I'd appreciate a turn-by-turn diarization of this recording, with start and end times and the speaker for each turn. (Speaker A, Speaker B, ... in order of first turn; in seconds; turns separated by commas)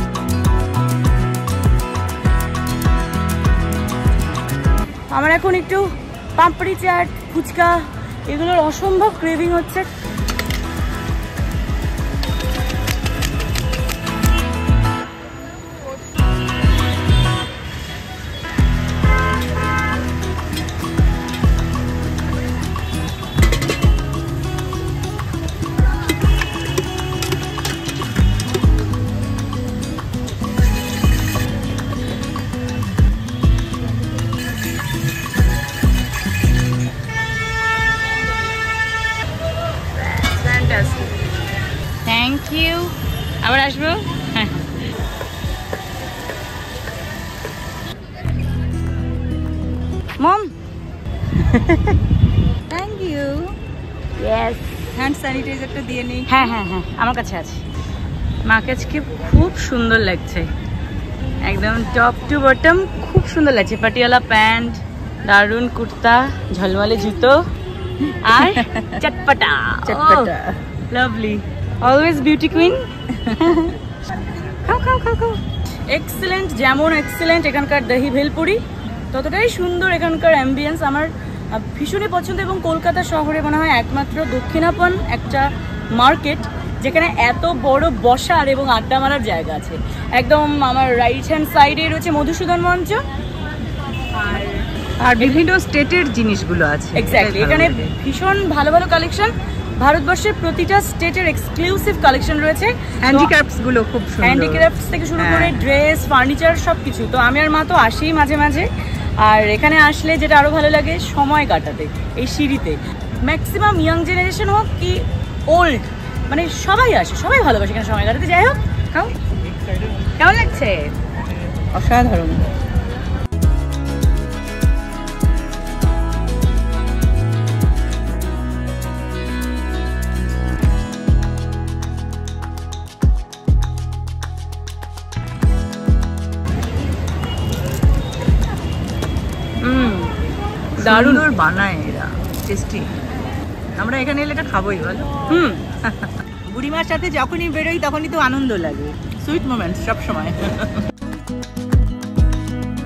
Speaker A: 5.1-9.9, Speaker A: 39.9-41.1, Speaker A: 42.0-44.7, Speaker A: 50.2-50.5, Speaker A: 51.4-52.0, Speaker B: 52.7-53.5, Speaker A: 54.2-54.9, Speaker B: 54.9-56.4, Speaker A: 56.3-57.6, Speaker A: 58.5-60.5, Speaker A: 61.4-67.4, Speaker A: 68.2-70.3, Speaker B: 68.4-69.0, Speaker B: 69.8-70.6, Speaker A: 70.9-72.8, Speaker B: 73.1-73.7, Speaker B: 74.7-75.4, Speaker A: 75.9-78.6, Speaker A: 79.1-93.0, Speaker A: 94.2-94.5, Speaker B: 95.0-97.9, Speaker A: 95.2-95.4, Speaker A: 96.9-103.3, Speaker B: 103.0-105.5, Speaker A: 104.2-108.7, Speaker A: 109.2-119.1, Speaker A: 120.2-120.9, Speaker B: 121.7-122.4, Speaker A: 139.6-140.1, Speaker A: 140.8-141.3, Speaker B: 140.8-142.9, Speaker B: 143.8-145.1, Speaker A: 145.3-145.6, Speaker B: 145.8-150.7